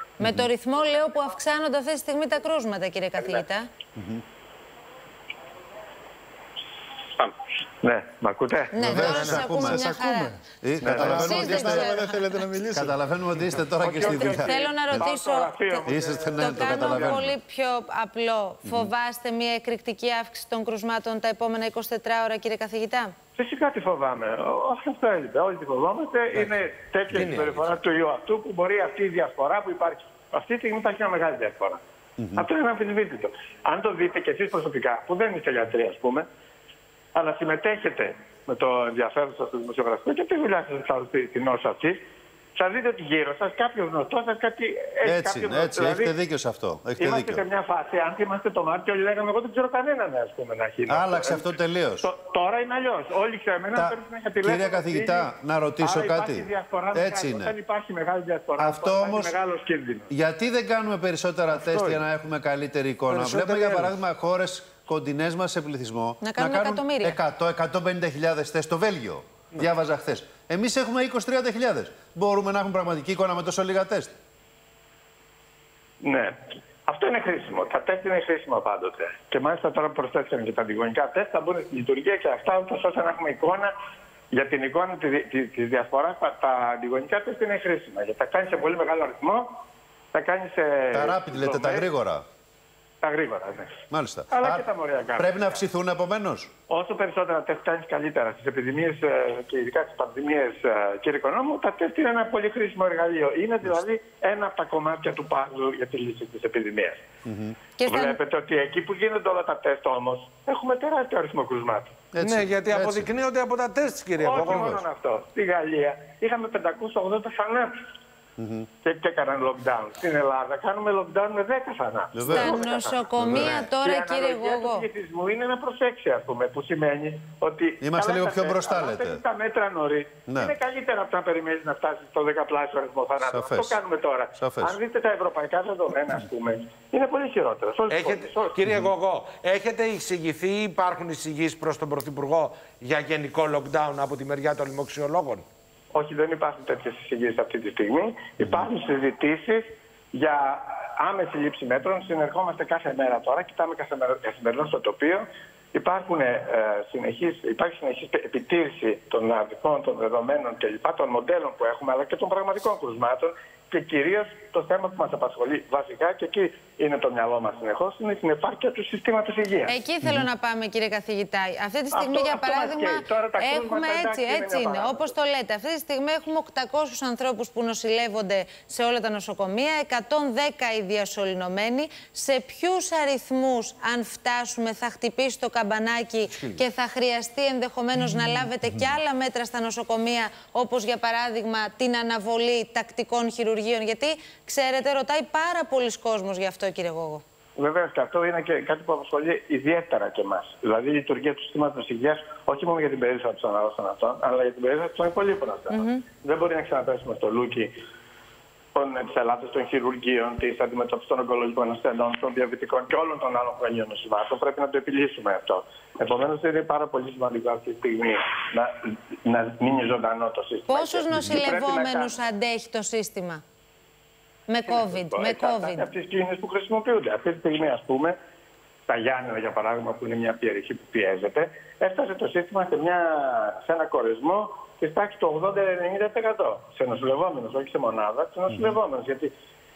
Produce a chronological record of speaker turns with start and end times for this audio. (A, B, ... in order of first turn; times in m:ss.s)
0:00.2-0:03.7 A
0:00.2-0:00.5 B
0:03.2-0:03.4 C
0:04.0-0:04.2 B
0:07.8-0:09.0 C
0:08.7-0:10.4 A
0:08.8-0:09.9 B
0:08.8-0:13.0 D
0:10.6-0:11.9 B
0:10.9-0:12.2 A
0:12.7-0:15.1 B
0:13.8-0:17.2 C
0:14.0-0:23.1 A
0:15.8-0:17.4 B
0:23.4-0:31.8 C
0:27.1-0:27.8 E
0:32.4-0:36.3 C
0:37.2-0:42.0 C
0:42.6-0:46.1 C
0:45.0-0:47.4 B
0:47.0-0:51.5 C
0:50.9-0:52.1 B
0:52.0-1:00.1 C
0:53.8-0:57.5 B
0:58.6-0:59.3 B
1:00.1-1:14.1 B
1:01.5-1:02.0 E
1:03.1-1:04.0 E
1:06.2-1:07.2 A
1:16.0-1:16.4 C
1:16.9-1:23.7 C
1:24.3-1:29.6 C
1:30.1-1:31.9 C
1:30.9-1:32.2 B
1:33.0-1:35.6 C
1:33.9-1:34.7 B
1:35.2-1:36.5 B
1:36.7-1:47.0 C
1:47.2-1:47.6 B
1:47.8-1:48.2 A
1:47.8-1:52.0 C
1:52.1-1:53.1 B
1:52.2-1:54.8 E
1:54.2-1:57.7 C
1:54.4-1:54.8 B
1:58.4-1:58.7 B
1:58.8-2:18.6 C
2:02.1-2:02.6 B
2:02.3-2:04.9 A
2:03.2-2:03.7 B
2:07.8-2:09.2 B
2:10.3-2:10.6 B
2:13.2-2:13.8 B
2:14.4-2:14.8 B
2:17.9-2:25.4 E
2:25.9-2:49.8 C
2:49.7-3:17.2 A
2:51.9-2:55.1 C
3:08.7-3:09.0 B
3:17.6-3:27.7 C
3:25.7-3:26.0 A
3:28.8-3:42.2 C
3:40.7-3:43.4 A
3:44.5-3:45.9 A
3:44.7-3:48.2 C
3:48.9-3:59.3 C